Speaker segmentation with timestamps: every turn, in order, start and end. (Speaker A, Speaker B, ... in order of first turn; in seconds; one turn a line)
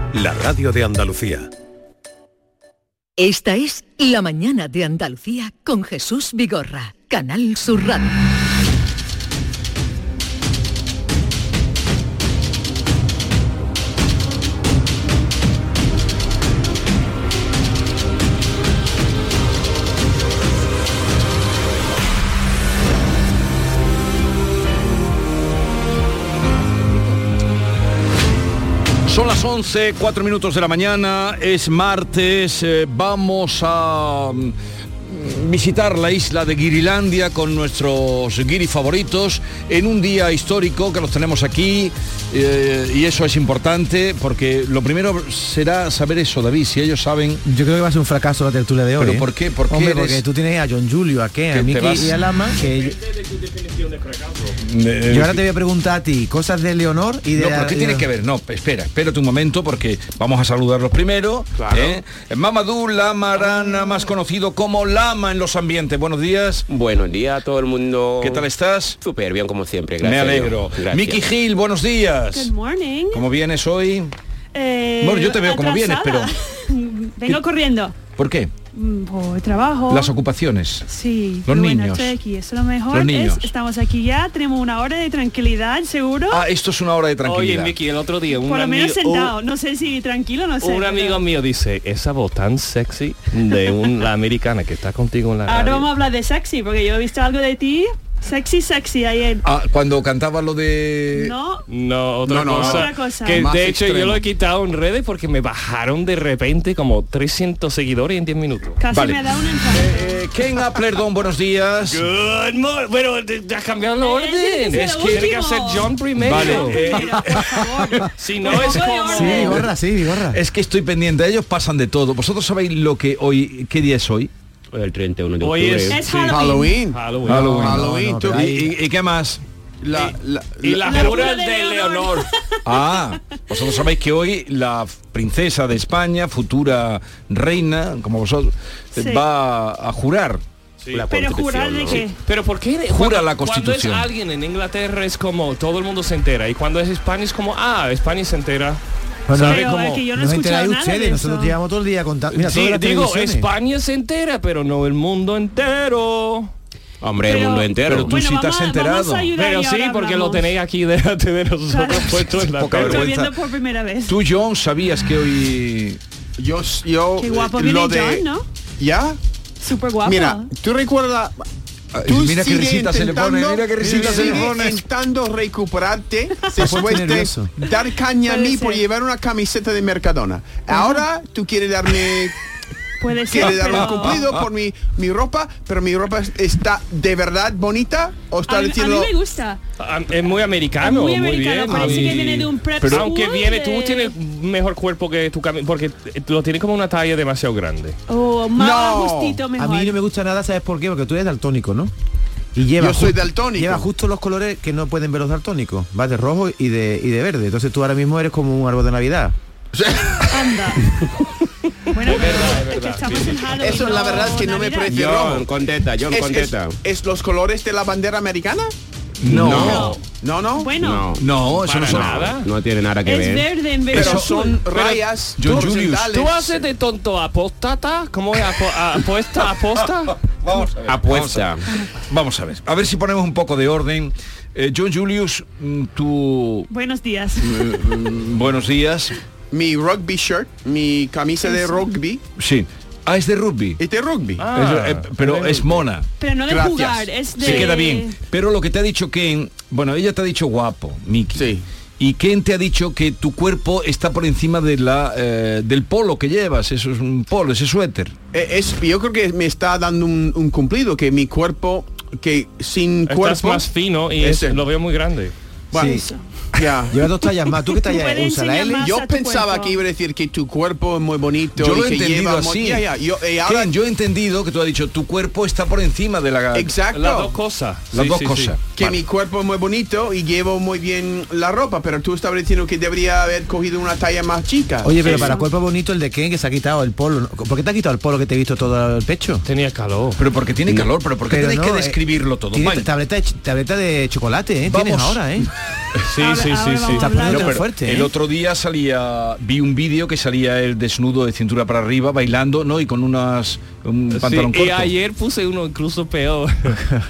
Speaker A: 3.2-8.1
Speaker B: 29.1-47.4
Speaker C: 47.4-53.0
Speaker B: 49.0-50.2
Speaker D: 51.5-52.0
Speaker B: 51.8-52.0
Speaker D: 52.8-54.5
Speaker B: 54.6-55.4
Speaker C: 55.1-58.0
Speaker B: 57.3-66.6
Speaker E: 66.7-68.5
Speaker B: 68.2-69.0
Speaker E: 69.0-71.3
Speaker B: 70.0-72.5
Speaker F: 72.3-73.2
Speaker B: 73.1-74.1
Speaker F: 74.5-78.0
Speaker B: 75.0-76.3
Speaker B: 78.2-78.5
Speaker F: 78.7-80.1
Speaker B: 79.9-80.8
Speaker F: 80.9-86.4
Speaker B: 81.5-82.2
Speaker B: 82.9-83.5
Speaker B: 86.3-87.7
Speaker D: 87.2-89.3
Speaker F: 88.4-91.2
Speaker D: 90.6-95.9
Speaker F: 95.5-99.4
Speaker B: 99.4-101.3
Speaker F: 101.1-101.6
Speaker D: 101.7-108.8
Speaker G: 102.2-104.2
Speaker F: 102.6-103.5
Speaker F: 108.8-110.0
Speaker B: 108.9-112.0
Speaker D: 111.9-117.0
Speaker F: 114.0-119.6
Speaker B: 114.7-115.3
Speaker B: 116.2-118.0
Speaker D: 118.2-119.7
Speaker C: 119.1-120.4
Speaker B: 120.3-124.3
Speaker E: 124.7-126.0
Speaker D: 125.4-127.5
Speaker F: 125.9-126.8
Speaker G: 126.2-128.4
Speaker B: 127.3-129.4
Speaker C: 127.3-128.7
Speaker G: 129.8-131.2
Speaker D: 129.9-132.3
Speaker F: 130.8-132.8
Speaker B: 132.6-140.4
Speaker F: 138.9-139.2
Speaker E: 140.9-142.1
Speaker F: 141.1-142.2
Speaker D: 142.2-148.8
Speaker B: 142.9-144.1
Speaker C: 149.3-153.5
Speaker D: 149.3-149.8
Speaker F: 149.4-151.6
Speaker D: 152.3-156.5
Speaker E: 157.0-158.2
Speaker F: 157.2-160.6
Speaker B: 157.8-159.3
Speaker D: 159.3-163.1
Speaker F: 161.7-164.1
Speaker B: 162.3-163.3
Speaker B: 164.1-166.0
Speaker G: 166.4-168.2
Speaker F: 167.2-168.4
Speaker G: 168.8-169.2
Speaker F: 169.6-170.5
Speaker G: 170.0-171.4
Speaker B: 171.9-174.8
Speaker G: 172.0-182.3
Speaker C: 173.9-174.5
Speaker C: 176.6-177.5
Speaker F: 178.2-178.8
Speaker F: 180.7-181.1
Speaker F: 183.0-184.3
Speaker G: 183.2-189.1
Speaker B: 183.6-184.4
Speaker F: 188.5-189.6
Speaker D: 189.8-198.0
Speaker F: 190.8-194.1
Speaker B: 191.7-192.2
Speaker B: 192.8-193.1
Speaker F: 198.1-200.0
Speaker G: 198.6-199.4
Speaker C: 199.5-201.9
Speaker C: 202.5-209.3
Speaker G: 202.8-203.9
Speaker F: 210.3-210.8
Speaker F: 211.9-215.0
Speaker D: 212.0-213.6
Speaker G: 213.6-215.5
Speaker E: 214.9-216.8
Speaker G: 216.1-218.7
Speaker B: 219.2-220.0
Speaker E: 219.3-219.9
Speaker G: 219.3-220.7
Speaker F: 219.6-220.0
Speaker F: 220.6-221.1
Speaker E: 220.8-221.2
Speaker B: 221.1-222.3
Speaker D: 221.4-222.5
Speaker E: 221.9-223.5
Speaker F: 223.0-224.7
Speaker B: 223.9-226.1
Speaker G: 223.9-226.6
Speaker D: 226.1-230.2
Speaker B: 230.4-231.5
Speaker E: 230.8-231.6
Speaker F: 231.7-232.0
Speaker B: 232.0-236.7
Speaker F: 236.7-237.5
Speaker B: 237.4-239.2
Speaker G: 239.5-242.2
Speaker F: 241.5-241.8
Speaker B: 242.4-243.8
Speaker G: 243.8-244.4
Speaker D: 244.4-245.8
Speaker B: 244.5-246.1
Speaker F: 246.2-248.1
Speaker G: 246.5-247.8
Speaker B: 247.4-258.1
Speaker G: 251.3-251.6
Speaker G: 258.3-263.7
Speaker D: 263.1-265.3
Speaker G: 264.2-264.6
Speaker G: 265.7-266.0
Speaker C: 265.7-266.0
Speaker F: 265.8-266.2
Speaker G: 266.5-267.0
Speaker C: 266.9-268.9
Speaker F: 267.7-269.8
Speaker G: 268.8-273.7
Speaker B: 271.6-272.8
Speaker B: 273.4-276.7
Speaker G: 276.5-277.3
Speaker D: 276.9-278.6
Speaker B: 277.9-279.0
Speaker G: 278.7-285.4
Speaker C: 284.8-289.4
Speaker D: 285.1-285.3
Speaker F: 285.1-285.4
Speaker D: 289.4-290.2
Speaker B: 290.2-292.9
Speaker C: 291.3-292.0
Speaker C: 292.5-295.5
Speaker B: 294.6-295.5
Speaker D: 296.1-297.2
Speaker F: 296.2-297.6
Speaker C: 296.9-298.1
Speaker B: 297.2-304.9
Speaker D: 304.1-306.8